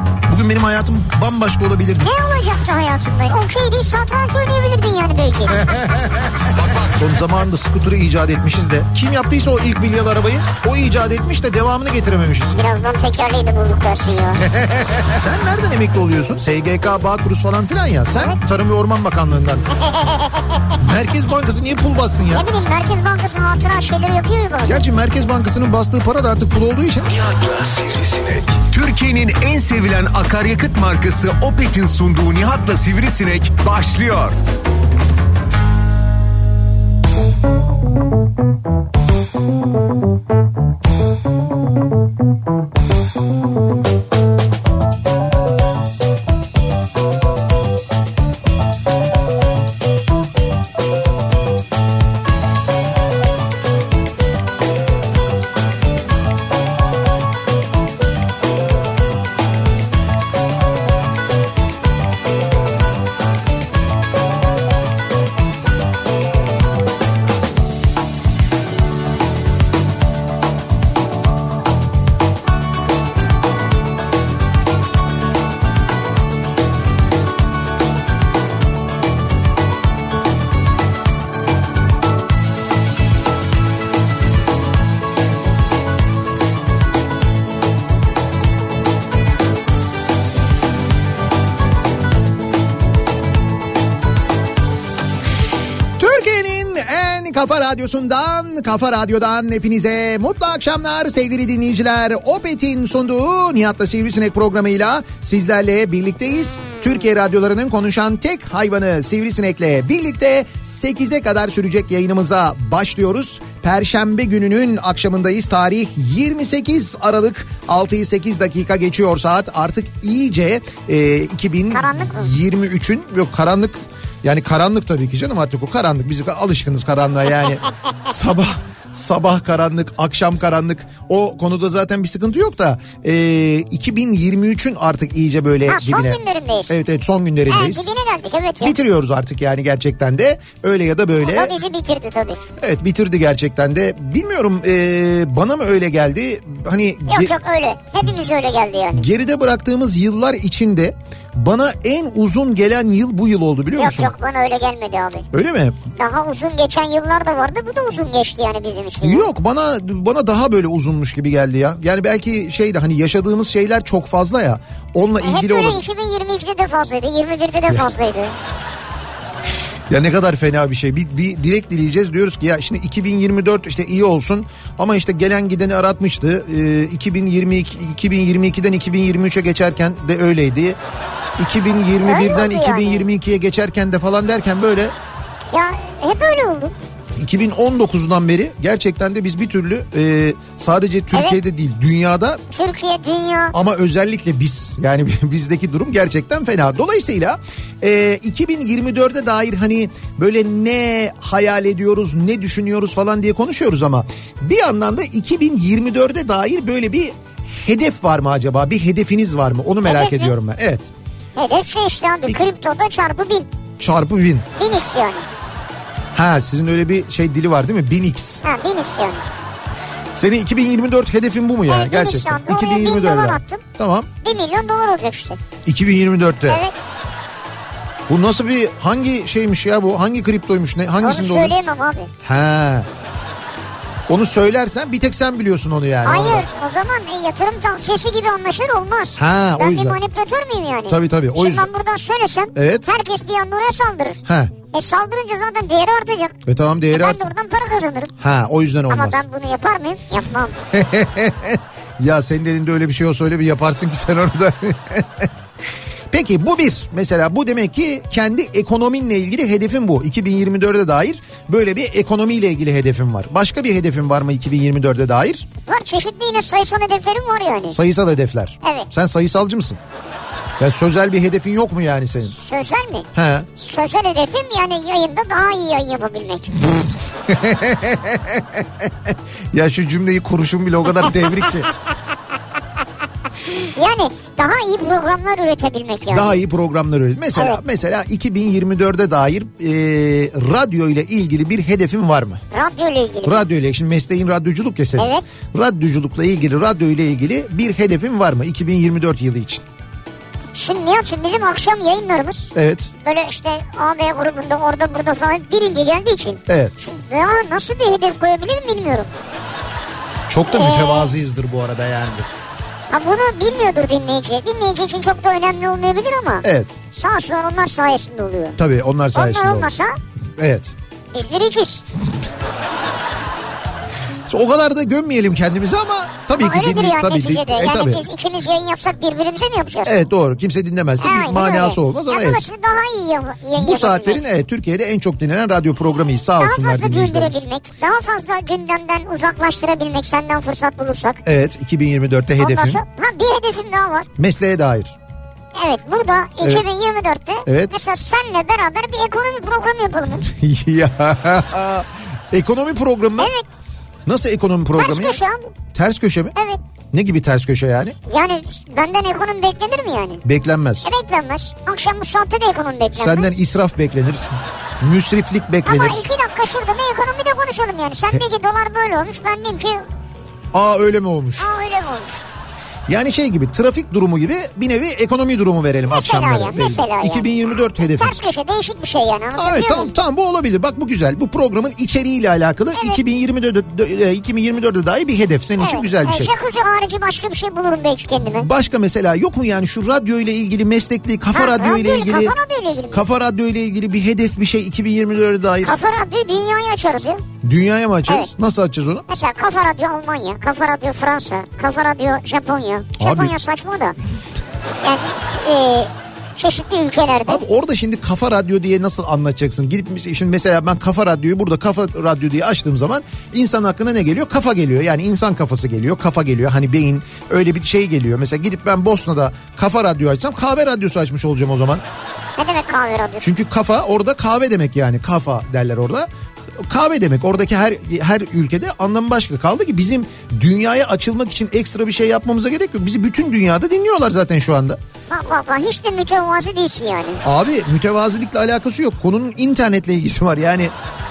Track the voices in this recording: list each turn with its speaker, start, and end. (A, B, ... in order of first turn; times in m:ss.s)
0:00.3-0:02.1 A
0:02.0-0:05.8 B
0:05.5-0:12.6 A
0:12.5-0:14.4 B
0:14.4-0:19.7 A
0:19.8-0:20.7 B
0:20.8-0:22.5 A
0:22.3-0:24.8 B
0:24.6-0:27.1 A
0:27.1-0:34.4 C
1:36.0-2:17.9 A
2:01.7-2:02.3 B
2:15.7-2:16.8 B
2:17.5-2:18.8 B
2:18.6-2:21.6 A
2:21.2-2:22.4 B
2:22.6-2:27.3 A
2:27.1-2:29.1 B
2:28.9-2:34.1 A
2:33.8-2:35.2 B
2:35.3-2:35.8 A
2:36.0-2:39.3 B
2:39.0-2:45.8 A
2:45.2-2:48.3 B
2:49.9-3:00.8 A
3:01.4-3:04.9 A
3:02.0-3:03.1 B
3:05.5-3:06.7 B
3:07.2-3:12.4 A
3:11.1-3:11.4 B
3:12.5-3:13.5 B
3:13.5-3:30.9 A
3:29.8-3:30.3 B
3:31.4-3:33.5 B
3:33.8-3:34.5 A
3:34.6-3:35.2 B
3:36.1-3:38.4 A
3:38.4-3:39.2 B
3:40.1-3:44.1 A
3:41.7-3:43.6 B
3:44.2-3:45.4 B
3:45.7-3:46.6 A
3:46.5-3:46.7 B
3:48.1-3:51.6 A
3:51.0-3:52.1 B
3:52.2-3:52.9 A
3:54.1-3:56.4 A
3:56.0-4:06.4 B
3:59.2-4:00.0 A
4:00.9-4:01.7 A
4:02.5-4:02.9 A
4:04.2-4:04.5 A
4:06.4-4:07.3 A
4:06.9-4:08.1 B
4:08.2-4:09.2 A
4:08.9-4:10.6 B
4:10.7-4:15.3 A
4:16.1-4:25.5 A
4:25.6-4:27.8 B
4:27.7-4:29.8 A
4:30.6-4:32.3 A
4:32.3-4:36.6 B
4:33.1-4:33.5 A
4:36.7-4:41.7 A
4:41.0-4:41.7 B
4:43.4-4:46.4 B
4:46.1-4:52.4 A
4:52.5-4:53.4 B
4:53.2-4:59.6 A
4:55.0-4:55.2 B
5:00.6-5:09.1 B
5:02.6-5:02.9 A
5:06.5-5:06.7 A
5:10.3-5:12.3 A
5:10.5-5:11.1 B
5:12.9-5:18.6 B
5:16.4-5:16.8 A
5:18.6-5:19.7 A
5:19.1-5:20.0 B
5:20.4-5:20.7 A
5:21.1-5:21.8 B
5:24.3-5:28.1 A
5:26.4-5:30.0 B
5:29.8-5:32.4 A
5:31.0-5:34.2 B
5:33.6-5:37.4 A
5:36.4-5:41.2 B
5:41.2-5:42.8 A
5:42.4-5:44.1 B
5:44.2-5:44.9 A
5:45.6-5:50.2 B
5:46.4-5:46.6 A
5:47.4-5:47.7 A
5:50.2-5:53.3 A
5:53.2-5:53.4 B
5:54.1-5:55.2 A
5:54.8-5:55.5 B
5:55.7-5:56.3 A
5:56.9-5:58.0 A
5:58.1-6:00.2 B
6:00.2-6:00.9 A
6:00.8-6:03.3 B
6:03.0-6:06.1 A
6:05.6-6:09.8 B
6:10.5-6:11.5 A
6:11.4-6:12.2 B
6:12.9-6:18.2 A
6:15.9-6:17.3 B
6:17.8-6:20.0 B
6:19.3-6:26.3 A
6:22.8-6:23.0 B
6:25.6-6:28.5 B
6:28.2-6:32.3 A
6:31.3-6:33.1 B
6:32.9-6:35.8 A
6:35.6-6:37.2 B
6:37.4-6:39.0 A
6:39.1-6:44.0 B
6:43.0-6:43.4 A
6:44.8-6:47.4 B
6:47.3-7:01.8 A
7:02.4-7:03.3 B
7:03.2-7:06.1 A
7:06.6-7:14.8 A
7:15.1-7:17.2 B
7:17.2-7:20.7 A